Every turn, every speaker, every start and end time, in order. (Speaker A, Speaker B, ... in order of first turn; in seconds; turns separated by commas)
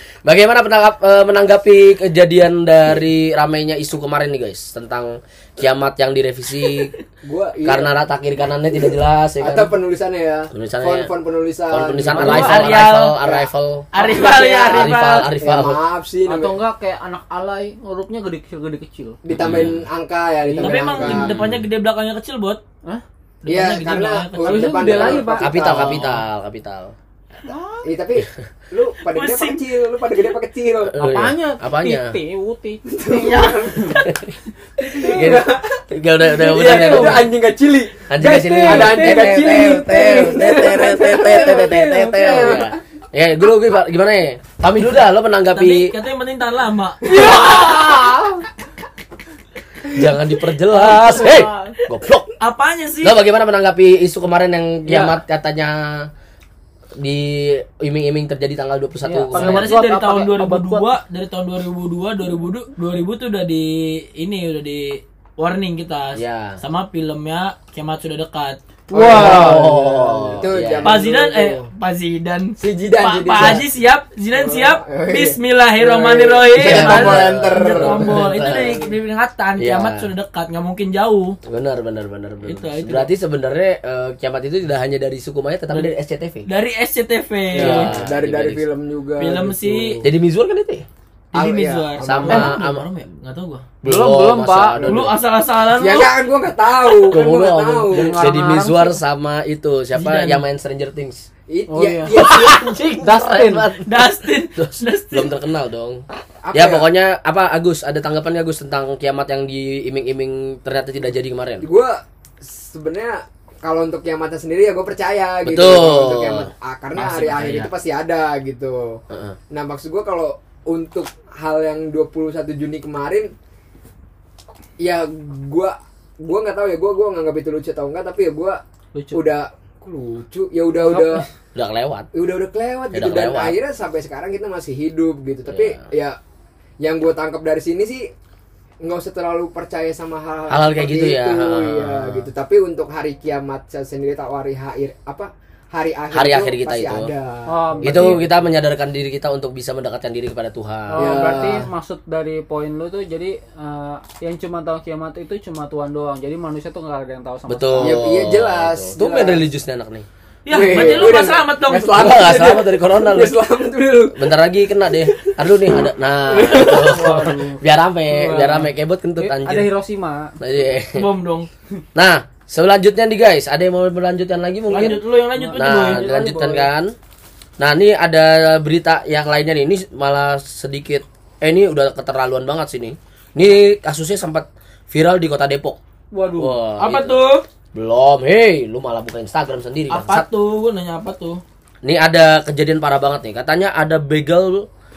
Speaker A: 0.2-6.9, Speaker B: 7.2-7.9, Speaker A: 7.6-9.7, Speaker B: 9.4-16.6, Speaker A: 10.5-11.1, Speaker A: 11.7-13.9, Speaker C: 12.1-12.6, Speaker D: 12.4-13.2, Speaker D: 13.9-15.3, Speaker A: 14.7-15.8, Speaker C: 16.2-19.2, Speaker B: 19.2-21.3, Speaker A: 19.3-19.8, Speaker C: 20.4-21.1, Speaker D: 20.6-22.6, Speaker A: 21.0-21.6, Speaker D: 23.4-25.0, Speaker B: 23.4-26.2, Speaker C: 24.4-25.7, Speaker A: 24.9-26.9, Speaker C: 27.4-27.9, Speaker B: 27.8-31.0, Speaker D: 29.1-29.6, Speaker A: 30.8-32.2, Speaker C: 31.0-34.1, Speaker B: 32.9-34.0, Speaker A: 34.0-34.3, Speaker C: 34.8-35.3, Speaker B: 34.9-35.8, Speaker A: 34.9-37.3, Speaker B: 36.3-42.7, Speaker C: 36.5-37.2, Speaker A: 38.1-45.9, Speaker C: 38.2-39.6, Speaker C: 41.1-42.6, Speaker D: 45.5-47.3, Speaker B: 47.0-48.3, Speaker C: 47.1-48.3, Speaker A: 49.9-52.3, Speaker C: 50.8-51.7, Speaker D: 52.4-53.2, Speaker A: 53.0-56.1, Speaker D: 54.9-55.2, Speaker A: 57.0-59.7, Speaker C: 59.0-60.9, Speaker D: 59.3-69.6, Speaker A: 66.2-66.6, Speaker B: 68.9-71.7, Speaker A: 69.1-71.0, Speaker D: 70.8-81.4, Speaker B: 72.6-73.6, Speaker B: 74.3-78.2, Speaker A: 76.5-78.8, Speaker A: 79.6-80.1, Speaker A: 81.5-86.5, Speaker D: 82.4-83.1, Speaker D: 86.5-87.9, Speaker A: 87.5-88.6, Speaker B: 87.5-90.1, Speaker D: 89.2-90.0, Speaker A: 90.0-90.8, Speaker D: 91.3-93.7, Speaker B: 91.3-92.5, Speaker A: 92.0-92.8, Speaker C: 93.8-94.9, Speaker A: 93.8-95.2, Speaker D: 94.8-96.2, Speaker B: 95.8-98.3, Speaker A: 97.1-101.2, Speaker C: 97.9-99.0, Speaker D: 100.0-100.4, Speaker B: 101.5-102.7, Speaker C: 101.7-102.2, Speaker A: 102.1-111.7, Speaker C: 103.0-103.7, Speaker D: 103.8-105.3, Speaker B: 106.4-106.9, Speaker B: 111.6-123.3, Speaker A: 115.4-117.7, Speaker A: 119.1-119.4, Speaker B: 124.8-128.6, Speaker C: 128.9-129.2, Speaker B: 129.1-131.2, Speaker C: 130.8-131.3, Speaker A: 131.5-132.1, Speaker B: 132.1-136.2, Speaker A: 132.9-133.6, Speaker A: 135.5-135.8, Speaker B: 136.8-138.1, Speaker B: 138.8-148.2, Speaker A: 140.5-142.3, Speaker A: 146.1-147.1, Speaker C: 147.5-148.2, Speaker A: 147.8-151.3, Speaker C: 150.9-158.1, Speaker B: 151.0-151.7, Speaker A: 157.5-160.1, Speaker B: 157.8-159.4, Speaker D: 160.4-162.0, Speaker B: 160.5-164.2, Speaker A: 160.7-161.1, Speaker A: 161.9-163.4, Speaker A: 164.1-169.7, Speaker B: 165.0-165.3, Speaker B: 166.2-167.3, Speaker C: 166.6-167.6, Speaker C: 168.2-168.7, Speaker B: 168.2-168.6, Speaker C: 169.2-170.3, Speaker A: 170.4-171.0, Speaker D: 170.9-171.5, Speaker A: 171.9-175.0, Speaker D: 174.7-176.1, Speaker C: 175.3-176.7, Speaker A: 175.5-176.9, Speaker A: 177.6-185.8, Speaker C: 186.1-186.6, Speaker A: 186.4-187.2, Speaker D: 186.8-187.4, Speaker A: 187.7-190.2, Speaker D: 189.9-191.4, Speaker A: 191.8-194.7